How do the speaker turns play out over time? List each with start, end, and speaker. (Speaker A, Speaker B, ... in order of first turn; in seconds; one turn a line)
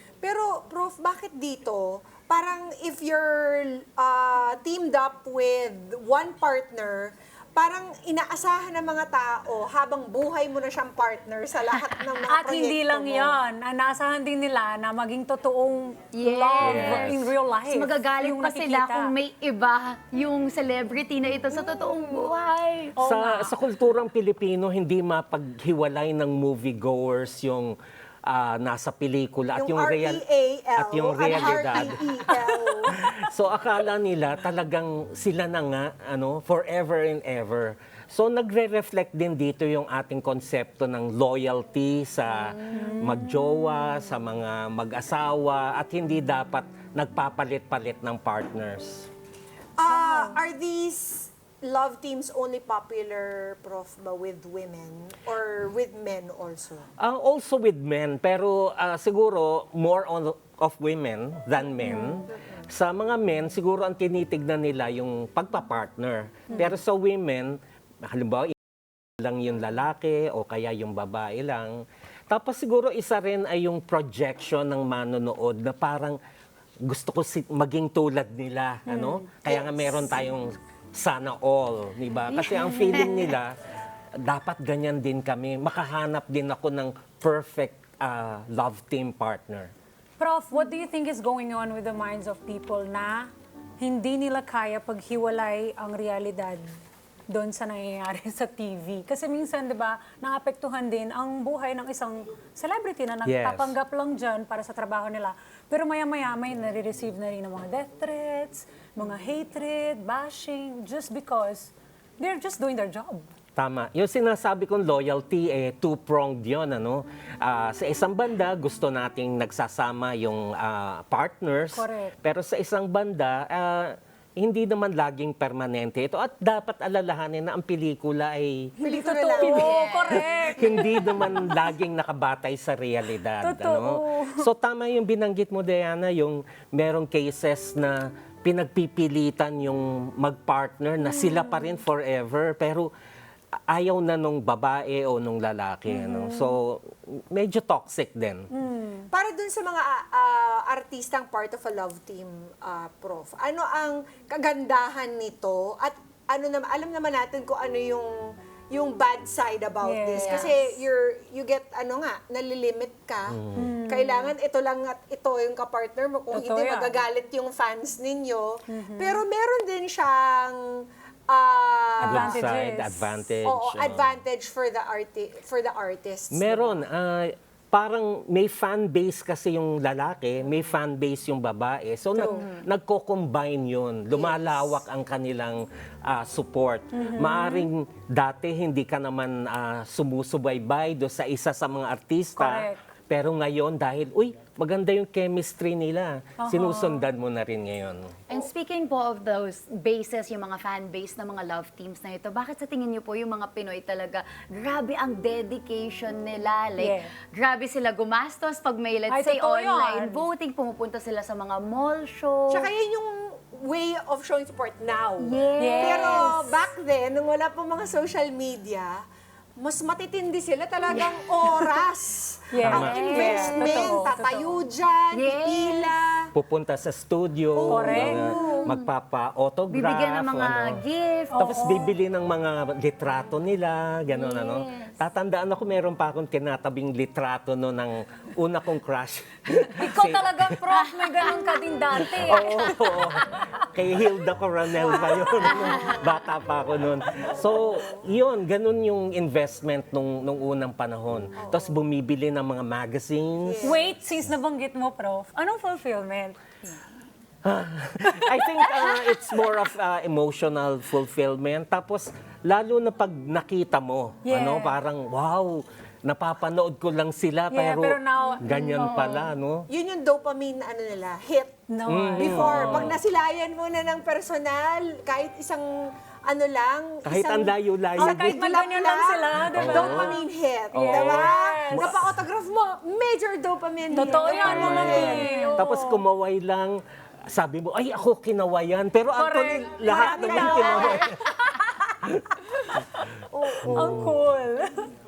Speaker A: 0.2-13.3
Speaker B: 12.3-19.1
Speaker C: 16.1-22.9
Speaker D: 16.6-17.3
Speaker A: 21.5-22.4
Speaker B: 23.0-23.5
Speaker D: 23.0-30.2
Speaker A: 29.6-33.0
Speaker D: 30.8-32.4
Speaker D: 32.9-49.1
Speaker B: 42.7-43.2
Speaker A: 49.8-56.9
Speaker B: 49.9-50.4
Speaker D: 57.0-68.6
Speaker A: 62.0-62.3
Speaker D: 69.2-76.2
Speaker D: 76.8-83.5
Speaker B: 78.9-79.2
Speaker A: 79.5-80.2
Speaker C: 82.3-83.3
Speaker D: 84.2-89.7
Speaker B: 90.2-96.7
Speaker B: 97.3-113.3
Speaker D: 103.2-103.7
Speaker D: 113.6-128.7
Speaker B: 121.7-122.1
Speaker B: 128.8-131.5
Speaker A: 128.8-129.9
Speaker C: 129.4-130.3
Speaker D: 130.1-142.9
Speaker B: 133.4-134.5
Speaker D: 143.7-148.5
Speaker B: 145.9-146.4
Speaker B: 148.5-149.1
Speaker A: 149.1-158.1
Speaker A: 158.7-170.6
Speaker B: 159.8-160.6
Speaker C: 160.2-160.7
Speaker D: 163.3-163.7
Speaker B: 163.6-164.3
Speaker B: 166.3-167.0
Speaker B: 168.7-169.2
Speaker A: 171.3-172.4
Speaker B: 172.0-173.1
Speaker D: 172.0-174.2
Speaker A: 173.4-176.8
Speaker D: 176.3-198.2
Speaker B: 182.2-182.4
Speaker A: 184.1-184.7
Speaker B: 186.9-187.7
Speaker B: 192.3-192.8
Speaker B: 196.4-197.1
Speaker C: 198.3-212.7
Speaker B: 206.8-207.1
Speaker B: 209.1-210.2
Speaker A: 212.5-219.0
Speaker C: 215.2-216.5
Speaker B: 215.6-216.3
Speaker A: 219.6-226.3
Speaker C: 220.9-221.8
Speaker B: 222.5-224.6
Speaker D: 222.6-222.9
Speaker C: 222.8-224.0
Speaker C: 225.1-225.9
Speaker D: 226.3-230.8
Speaker A: 227.5-228.8
Speaker B: 227.7-228.3
Speaker C: 228.3-228.9
Speaker C: 229.7-231.8
Speaker B: 231.3-231.9
Speaker D: 231.4-240.6
Speaker C: 234.1-234.9
Speaker B: 239.6-243.5
Speaker C: 240.7-241.6
Speaker D: 242.0-253.8
Speaker C: 242.3-242.8
Speaker A: 244.8-246.1
Speaker C: 245.5-246.0
Speaker A: 251.4-251.8
Speaker A: 253.4-253.9
Speaker B: 253.6-256.4
Speaker D: 257.4-269.7
Speaker B: 264.2-264.8
Speaker B: 267.5-268.5
Speaker C: 268.2-269.3
Speaker A: 269.7-271.6
Speaker B: 271.7-272.9
Speaker D: 271.9-273.0
Speaker A: 272.1-275.7
Speaker A: 276.2-285.6
Speaker D: 277.0-278.3
Speaker B: 278.0-281.9
Speaker D: 279.5-280.2
Speaker D: 280.7-282.2
Speaker B: 283.9-286.0
Speaker D: 284.1-291.2
Speaker B: 289.1-291.6
Speaker A: 289.8-291.1
Speaker A: 293.3-293.9
Speaker B: 293.4-294.9
Speaker D: 293.6-294.2